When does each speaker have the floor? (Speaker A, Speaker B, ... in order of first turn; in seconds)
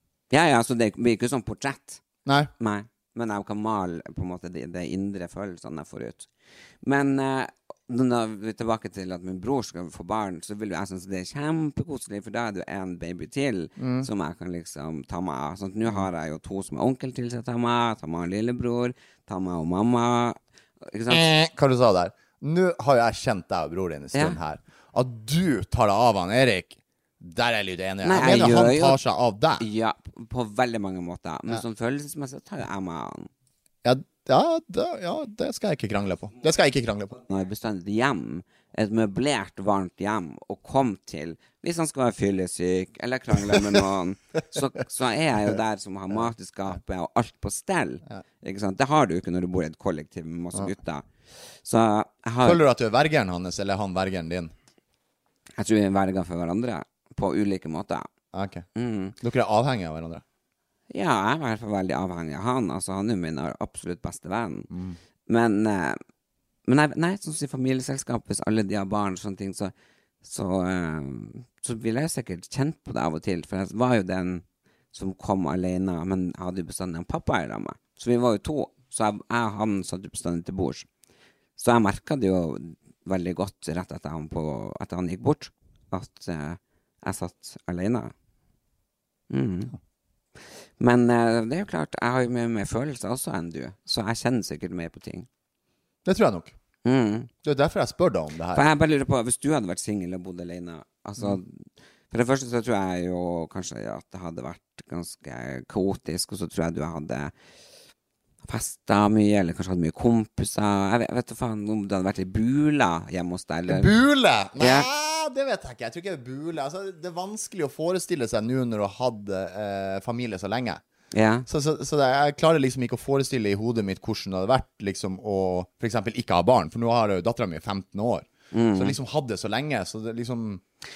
Speaker A: 0.3-2.0, 2.6-6.3, 6.8-21.3, 24.1-24.4, 28.0-29.0, 29.6-33.3, 37.3-51.0, 51.6-52.6, 55.6-58.1, 58.8-59.2, 60.9-64.7, 65.3-66.0, 66.7-80.9, 81.6-88.1, 89.3-89.7, 90.8-95.3, 96.8-97.3, 98.5-107.3, 108.4-113.9, 114.6-114.9, 121.1-121.5, 128.5-129.0
Speaker B: 2.3-2.5, 13.8-14.1, 21.1-29.6, 33.8-37.2, 43.5-43.8, 52.4-54.5, 58.3-58.7, 59.2-60.2, 64.7-65.0, 96.0-96.5, 97.4-98.6, 113.7-120.8, 121.5-130.6